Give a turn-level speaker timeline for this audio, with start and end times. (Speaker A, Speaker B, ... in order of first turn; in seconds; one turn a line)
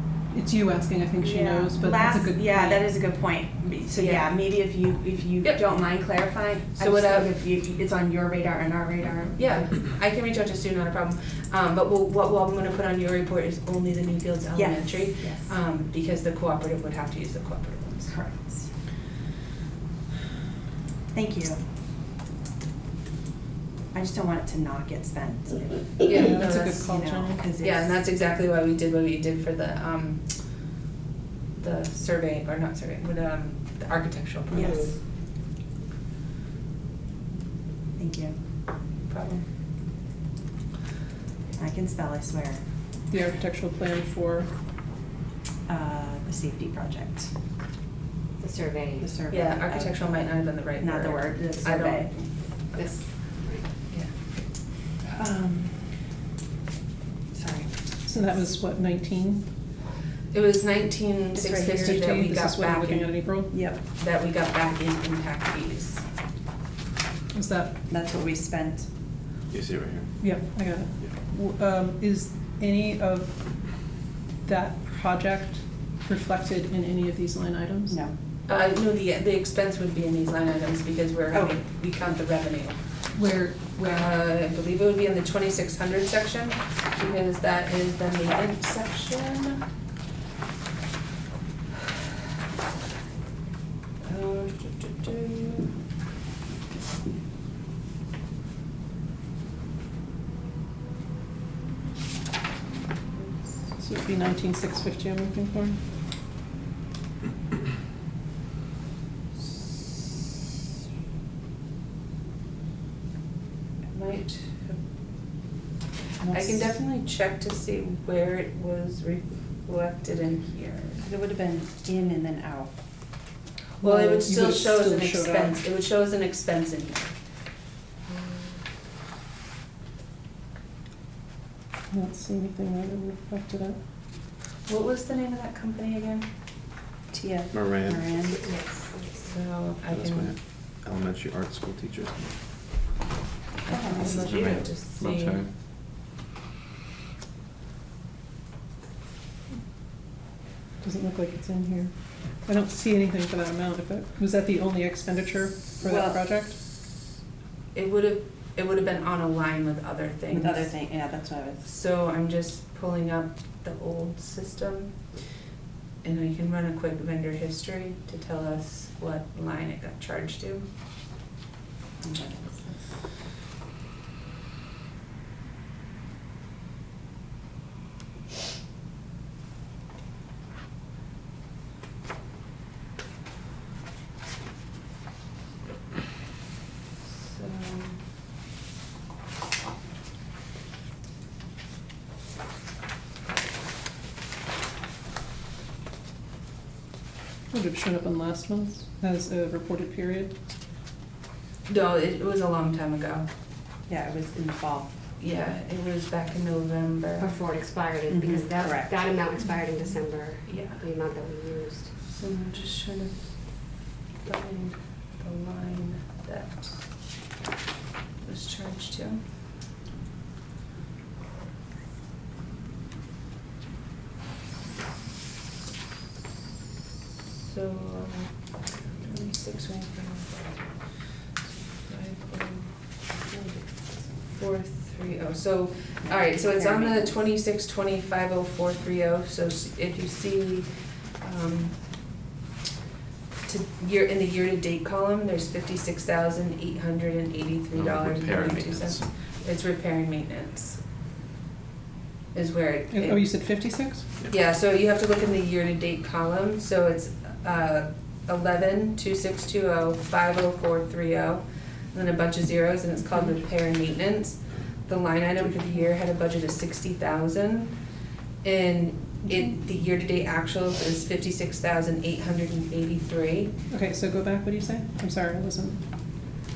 Speaker A: 0.3-2.9
Speaker B: 1.2-9.8
Speaker C: 3.9-4.3
Speaker C: 6.8-7.3
Speaker C: 9.4-18.1
Speaker B: 14.6-15.5
Speaker B: 18.1-18.7
Speaker B: 21.1-21.6
Speaker B: 23.9-28.0
Speaker C: 26.1-26.9
Speaker A: 26.2-27.4
Speaker C: 27.6-30.2
Speaker C: 31.6-35.0
Speaker B: 34.5-34.9
Speaker B: 38.0-38.4
Speaker C: 39.1-39.5
Speaker B: 41.6-42.6
Speaker A: 43.1-44.5
Speaker B: 45.7-47.3
Speaker D: 48.4-49.1
Speaker B: 49.0-52.1
Speaker C: 49.3-52.9
Speaker D: 52.7-53.7
Speaker B: 55.1-55.9
Speaker B: 57.3-57.8
Speaker A: 58.1-59.4
Speaker C: 60.3-63.2
Speaker A: 61.4-63.5
Speaker B: 63.5-63.8
Speaker C: 64.0-66.0
Speaker A: 67.3-67.8
Speaker B: 67.9-68.9
Speaker E: 69.5-70.1
Speaker A: 70.2-73.4
Speaker A: 74.4-78.0
Speaker B: 77.9-78.1
Speaker C: 78.5-82.8
Speaker A: 83.2-84.0
Speaker C: 83.8-89.6
Speaker C: 94.0-95.7
Speaker C: 103.2-103.6
Speaker A: 103.8-105.8
Speaker C: 109.5-109.8
Speaker C: 113.9-114.8
Speaker B: 116.2-116.7
Speaker C: 116.3-121.0
Speaker B: 121.0-122.8
Speaker A: 123.8-125.6
Speaker C: 123.8-127.1
Speaker C: 128.1-128.4
Speaker A: 131.9-133.8
Speaker C: 134.7-136.3
Speaker B: 137.1-138.5
Speaker E: 137.5-138.1
Speaker D: 138.2-139.3
Speaker C: 139.2-140.3
Speaker E: 139.8-142.4
Speaker C: 143.7-145.4
Speaker B: 143.7-144.3
Speaker E: 144.0-145.5
Speaker A: 150.8-156.6
Speaker B: 155.8-156.2
Speaker C: 157.7-160.8
Speaker B: 160.3-161.7
Speaker C: 161.6-165.0
Speaker C: 166.0-170.7
Speaker B: 172.0-172.7
Speaker C: 187.1-188.0
Speaker A: 197.5-200.3
Speaker C: 201.7-203.3
Speaker B: 203.9-204.9
Speaker C: 205.2-207.3
Speaker D: 207.2-211.9
Speaker B: 208.1-209.0
Speaker C: 210.5-210.8
Speaker C: 212.1-213.3
Speaker C: 214.2-216.8
Speaker C: 218.2-219.2
Speaker C: 227.3-228.4
Speaker C: 228.9-230.6
Speaker C: 231.7-240.7
Speaker B: 236.0-237.2
Speaker C: 241.2-241.8
Speaker C: 243.5-250.8
Speaker E: 247.7-249.1
Speaker C: 252.3-253.3
Speaker A: 252.9-254.1
Speaker C: 254.3-267.7
Speaker C: 268.4-273.5
Speaker A: 269.2-269.6
Speaker A: 273.7-275.8